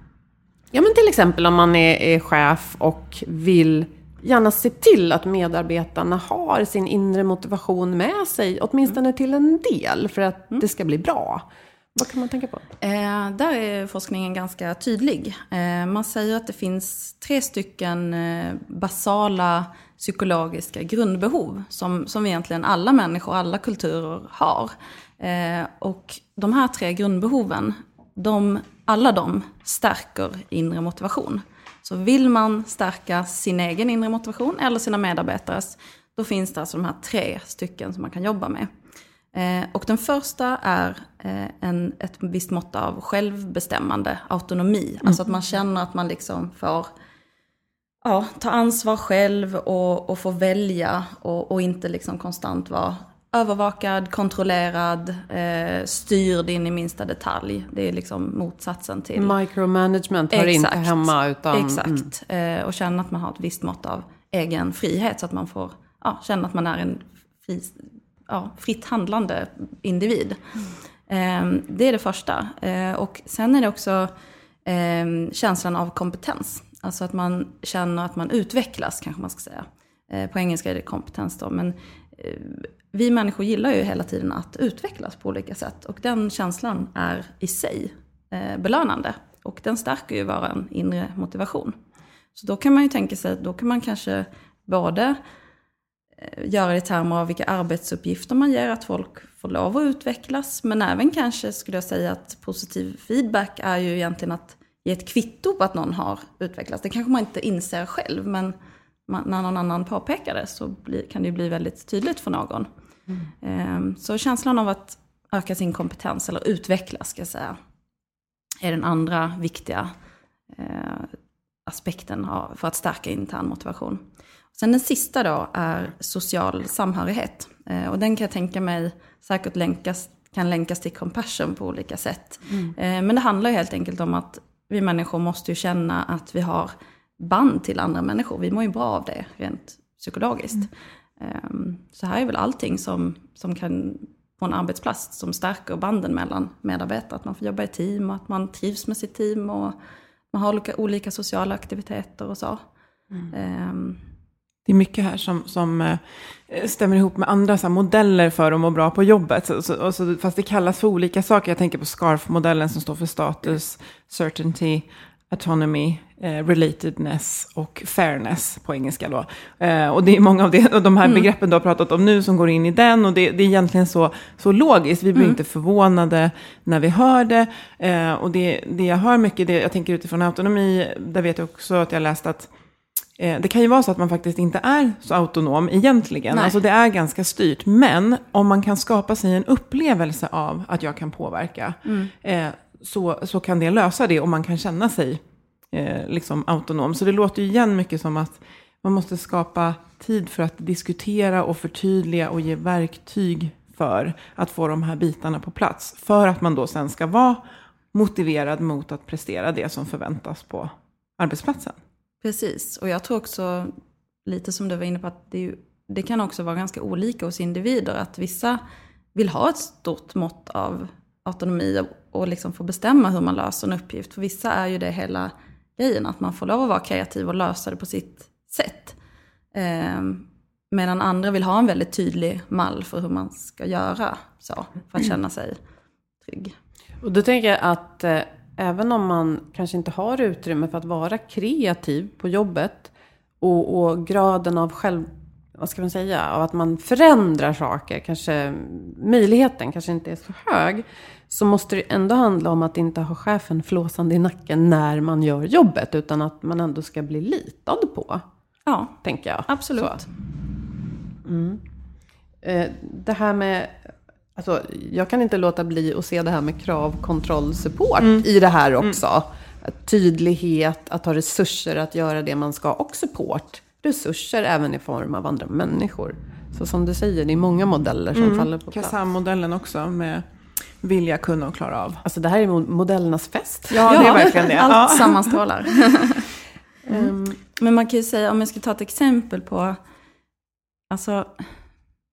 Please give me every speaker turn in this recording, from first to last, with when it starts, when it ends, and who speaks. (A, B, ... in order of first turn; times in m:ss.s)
0:00.7-0:12.6 A
0:12.8-0:38.7 B
0:39.3-0:46.9 B
0:48.0-0:59.3 B
0:59.1-1:02.0 A
1:00.3-1:10.5 B
1:11.1-1:14.1 B
1:14.6-1:31.8 B
1:32.3-1:35.2 B
1:36.2-1:48.5 B
1:49.1-1:52.7 B
1:53.4-1:57.6 B
1:58.6-1:59.9 B
2:00.5-2:01.1 B
2:01.6-2:04.0 B
2:04.5-2:29.8 B
2:30.3-2:32.6 B
2:33.3-2:34.0 B
2:34.6-3:02.5 C
3:03.2-3:31.8 C
3:11.8-3:12.1 B
3:32.2-3:33.7 B
3:34.2-3:38.6 B
3:39.1-3:49.0 B
3:49.5-3:55.6 B
3:56.2-3:56.5 B
3:57.0-4:18.2 A
4:18.6-4:20.0 B
4:19.0-4:20.0 A
4:21.2-4:21.6 A
4:22.4-4:39.0 A
4:28.0-4:28.2 C
4:38.1-4:40.2 C
4:40.8-4:42.0 C
4:42.0-4:44.4 A
4:43.7-4:45.4 C
4:43.7-4:46.3 B
4:46.9-4:47.4 A
4:47.6-4:49.8 B
4:50.9-4:51.4 B